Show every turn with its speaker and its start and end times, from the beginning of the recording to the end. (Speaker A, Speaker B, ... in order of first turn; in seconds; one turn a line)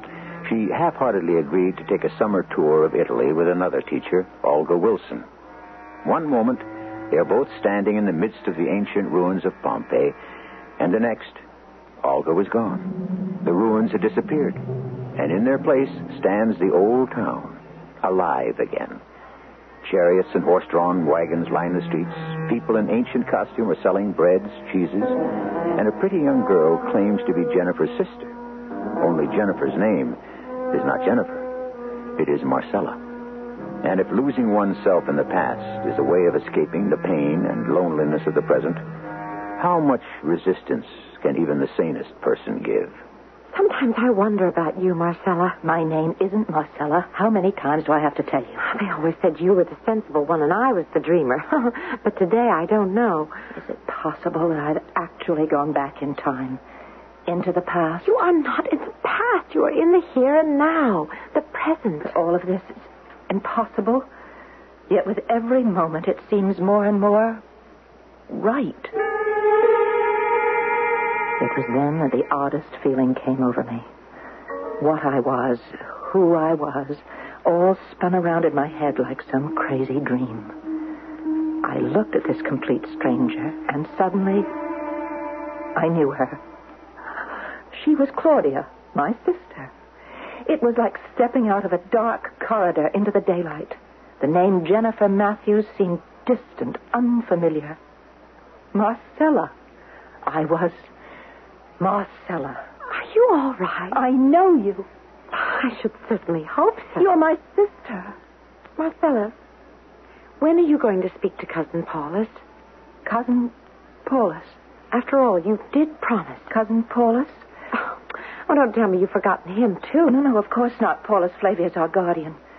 Speaker A: 0.4-5.3
Speaker A: 6.0-10.2
Speaker A: 10.8-11.4
Speaker A: 12.0-14.6
Speaker A: 15.2-19.0
Speaker A: 19.8-25.2
Speaker A: 25.7-28.3
Speaker A: 29.0-30.2
Speaker A: 30.7-31.5
Speaker A: 32.1-33.0
Speaker A: 33.8-38.8
Speaker A: 39.6-43.0
Speaker B: 43.5-45.6
Speaker C: 45.6-48.6
Speaker B: 48.6-53.4
Speaker C: 53.5-56.6
Speaker C: 57.3-58.1
Speaker B: 58.0-62.1
Speaker C: 62.0-64.1
Speaker C: 64.9-67.4
Speaker C: 68.3-68.9
Speaker C: 71.4-73.9
Speaker C: 74.8-80.6
Speaker C: 81.6-84.5
Speaker C: 85.7-86.4
Speaker C: 87.7-89.7
Speaker C: 90.4-97.8
Speaker C: 98.7-99.5
Speaker C: 100.2-100.9
Speaker C: 101.8-102.6
Speaker B: 102.9-104.0
Speaker C: 103.9-104.9
Speaker B: 105.3-107.1
Speaker C: 107.0-108.2
Speaker B: 108.8-109.3
Speaker B: 110.4-112.4
Speaker C: 113.0-113.5
Speaker C: 114.0-114.6
Speaker B: 114.9-116.5
Speaker C: 116.5-117.5
Speaker B: 117.8-120.0
Speaker C: 119.9-122.4